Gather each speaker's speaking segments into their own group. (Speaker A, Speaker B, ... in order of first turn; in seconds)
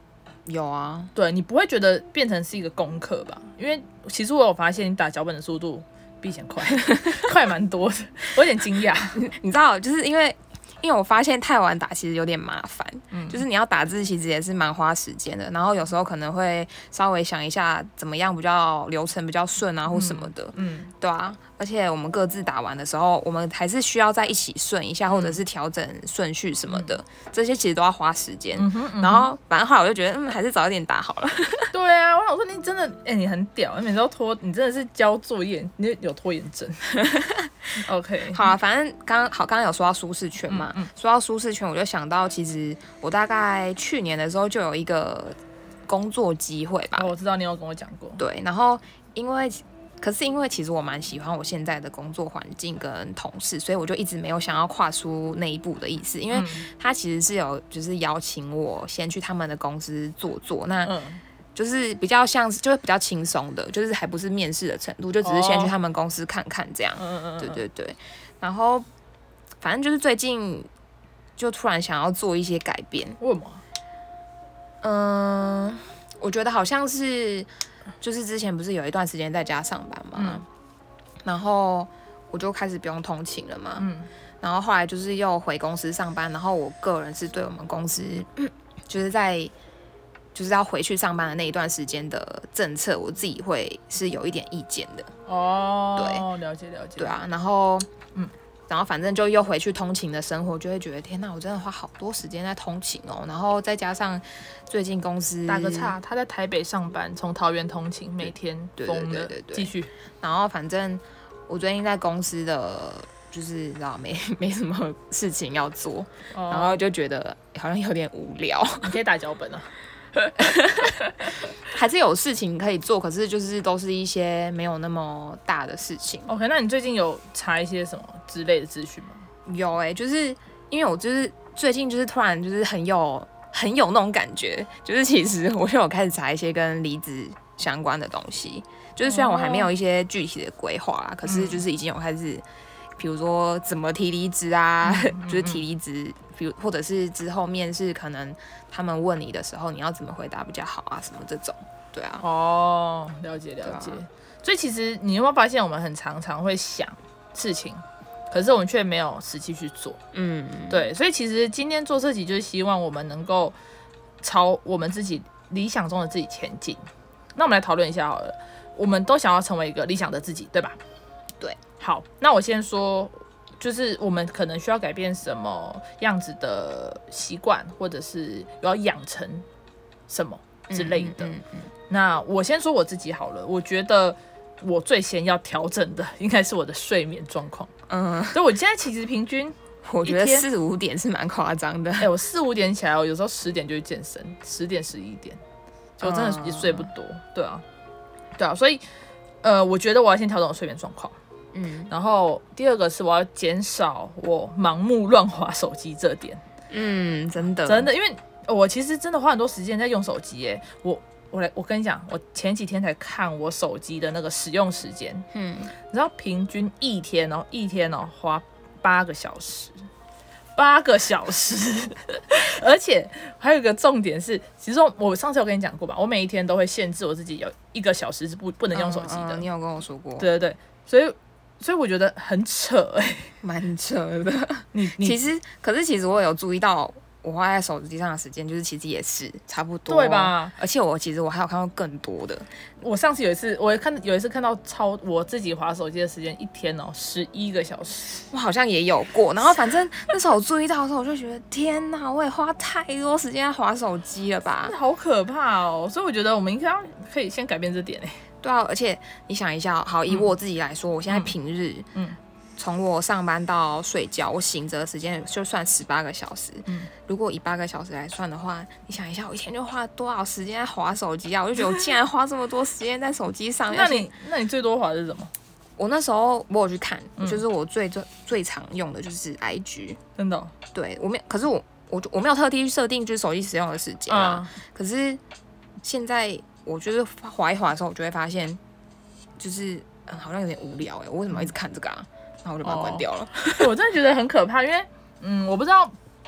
Speaker A: 0.5-1.1, 9.1-31.7, 36.9-37.8, 38.3-47.1, 48.2-61.0, 61.5-68.9, 69.6-70.7, 71.4-73.2, 74.8-77.5, 78.0-80.5, 81.2-83.9, 84.4-89.5, 90.3-95.1, 96.0-96.3, 97.0-97.9, 98.7-106.0, 108.8-118.9, 120.4-126.3, 129.5-142.4, 143.0-152.2, 153.6-154.0, 160.1-160.9, 180.7-181.7, 187.9-188.4, 189.8-192.1, 196.0-196.9, 201.5-201.9, 206.7-207.9, 215.3-215.7, 228.8-230.3, 233.4-242.5, 248.3-254.8, 258.4-261.9, 262.6-274.1, 275.8-280.0, 280.7-285.2, 285.8-288.6, 289.4-293.7
Speaker B: 1.1-9.2, 13.1-13.4, 19.9-20.9, 25.1-25.4, 28.6-29.3, 31.7-36.9, 37.8-38.5, 40.5-40.9, 47.0-48.2, 56.3-56.7, 60.8-61.2, 65.2-65.7, 67.0-67.6, 73.2-73.6, 80.2-80.4, 83.8-84.1, 95.3-97.2, 105.5-109.9, 116.3-116.8, 118.8-121.1, 126.3-129.2, 139.1-139.7, 141.2-141.6, 144.8-145.6, 152.2-160.0, 160.7-163.6, 164.2-166.8, 167.3-170.8, 171.8-179.5, 180.1-181.3, 181.9-187.7, 188.3-190.5, 192.0-195.4, 196.0-197.7, 198.4-198.8, 199.4-201.2, 201.9-206.4, 207.7-215.3, 215.8-219.8, 220.6-229.4, 230.2-233.3, 234.7-235.2, 239.9-240.6, 242.8-248.3, 254.7-258.2, 261.1-261.4, 273.7-275.3, 277.2-277.4, 280.2-280.5, 284.1-284.5, 292.6-295.9